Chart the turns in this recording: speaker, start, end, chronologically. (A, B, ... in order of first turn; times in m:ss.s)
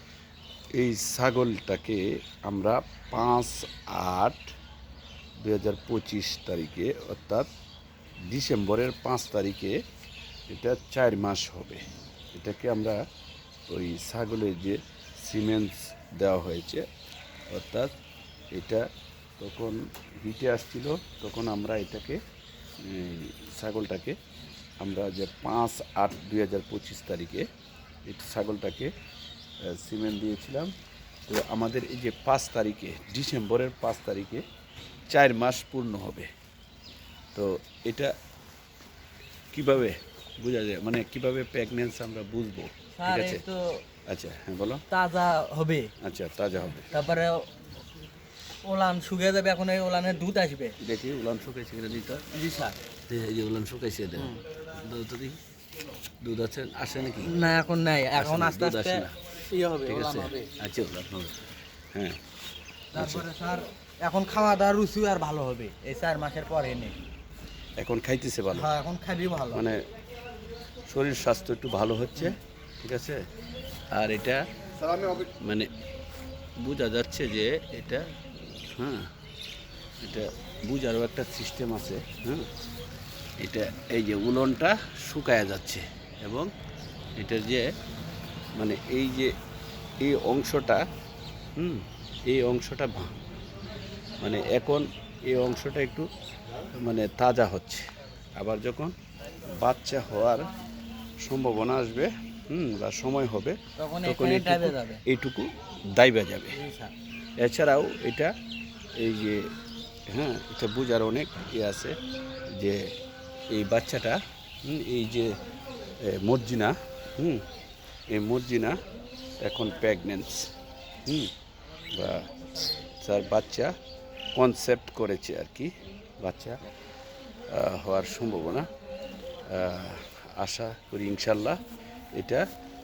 0:00.8-0:04.5 A
0:05.4-0:07.5 A
0:08.3-0:09.7 A
0:10.5-0:11.8 A
0:12.3-0:13.0 A
0:13.7-0:16.8 A
0:17.5-0:17.9 A
0:18.5-0:18.8 A
0:19.4-0:22.2 A
0:22.8-0:24.2 A
0:24.8-0:27.4 A
0:28.0-0:28.9 A
0:29.6-0:30.7 A
0:31.3-0:34.4 A
0:35.1-0:36.3 A
0:37.3-0:38.1 A
0:39.5-0:43.4 A
0:43.0-0:43.8 B
0:44.1-0:44.8 A
0:44.9-0:45.9 B
0:46.0-0:46.9 A
0:46.9-0:47.4 B
0:48.7-0:50.7 B
0:50.8-0:52.2 A
0:52.3-0:52.8 B
0:53.1-0:55.4 A
0:54.2-0:54.4 B
0:56.2-0:57.3 A
0:57.2-1:00.5 B
0:58.2-0:59.1 A
0:59.8-1:01.4 A
1:02.9-1:06.9 B
1:03.0-1:03.3 A
1:07.8-1:08.7 A
1:08.5-1:09.6 B
1:09.5-1:09.8 A
1:10.9-1:13.2 A
1:13.9-1:14.4 A
1:15.2-1:15.7 A
1:16.6-1:18.0 A
1:18.6-1:19.1 A
1:20.0-1:22.5 A
1:23.4-1:26.5 A
1:27.2-1:27.7 A
1:28.6-1:29.3 A
1:30.0-1:30.8 A
1:31.6-1:33.2 A
1:34.2-1:36.1 A
1:36.8-1:37.9 A
1:38.4-1:38.9 A
1:39.4-1:40.5 A
1:41.2-1:46.6 A
1:43.8-1:45.0 B
1:46.5-1:46.9 B
1:47.4-1:48.3 A
1:49.0-1:49.4 A
1:50.1-1:51.9 A
1:53.5-1:55.3 A
1:56.0-1:57.4 A
1:58.1-1:58.8 A
1:59.4-2:00.5 A
2:01.9-2:02.3 A
2:03.0-2:03.7 A
2:04.3-2:06.6 A
2:07.5-2:08.7 A
2:09.5-2:11.6 A
2:12.1-2:12.4 A